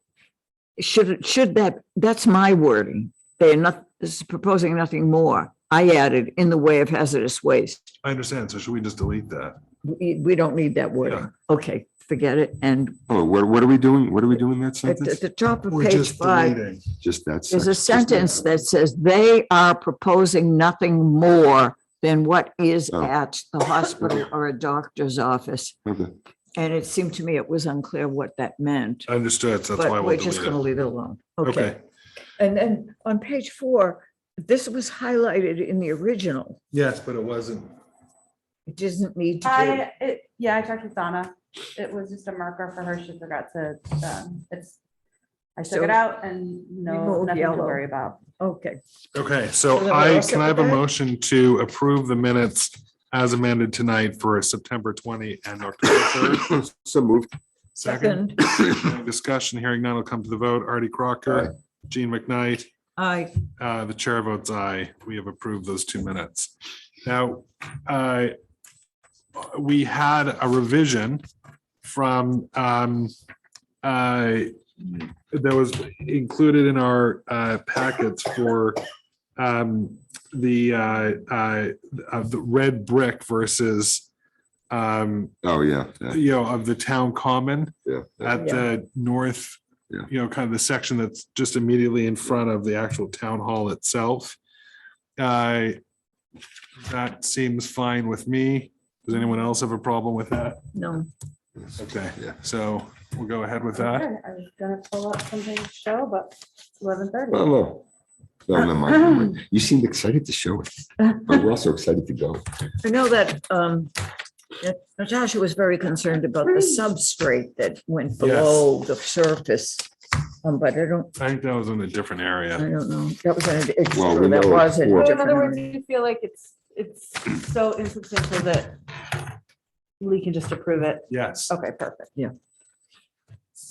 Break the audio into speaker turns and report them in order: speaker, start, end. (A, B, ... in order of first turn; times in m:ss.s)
0:00.8-0:07.9 A
0:08.0-0:09.6 B
0:09.8-0:13.0 A
0:11.0-0:11.3 B
0:13.1-0:15.2 C
0:14.8-0:16.6 A
0:15.7-0:16.8 B
0:17.0-0:18.4 C
0:17.5-0:25.8 A
0:25.9-0:26.1 C
0:26.6-0:29.1 A
0:29.1-0:30.6 B
0:29.8-0:31.8 A
0:31.4-0:31.8 B
0:32.4-0:36.6 A
0:36.7-0:37.7 B
0:38.7-0:39.9 A
0:39.4-0:44.8 D
0:45.6-0:48.2 D
0:45.7-0:46.0 A
0:46.8-0:47.8 A
0:48.4-0:48.8 A
0:49.1-0:56.6 B
0:49.7-0:50.8 A
0:56.4-0:57.3 C
0:57.8-1:02.7 B
0:57.8-0:58.4 A
1:03.0-1:03.4 A
1:03.6-1:06.5 B
1:07.0-1:08.4 B
1:09.4-1:11.2 B
1:11.8-1:13.1 B
1:13.8-1:18.8 B
1:19.4-1:24.1 B
1:24.7-1:25.3 B
1:25.4-1:26.2 C
1:26.1-1:34.4 B
1:27.9-1:28.3 C
1:28.4-1:28.7 A
1:35.2-1:35.8 B
1:36.8-1:40.7 B
1:40.7-1:41.1 A
1:41.8-1:44.1 B
1:43.8-1:47.6 D
1:47.3-1:47.8 C
1:48.5-1:52.4 C
1:52.8-1:53.9 A
1:54.6-1:59.9 A
1:56.4-1:56.8 D
1:58.2-1:58.7 B
2:00.4-2:01.1 A
2:01.2-2:02.7 B
2:02.6-2:05.8 A
2:03.9-2:05.2 C
2:05.0-2:08.8 D
2:10.0-2:12.1 D
2:11.1-2:11.5 B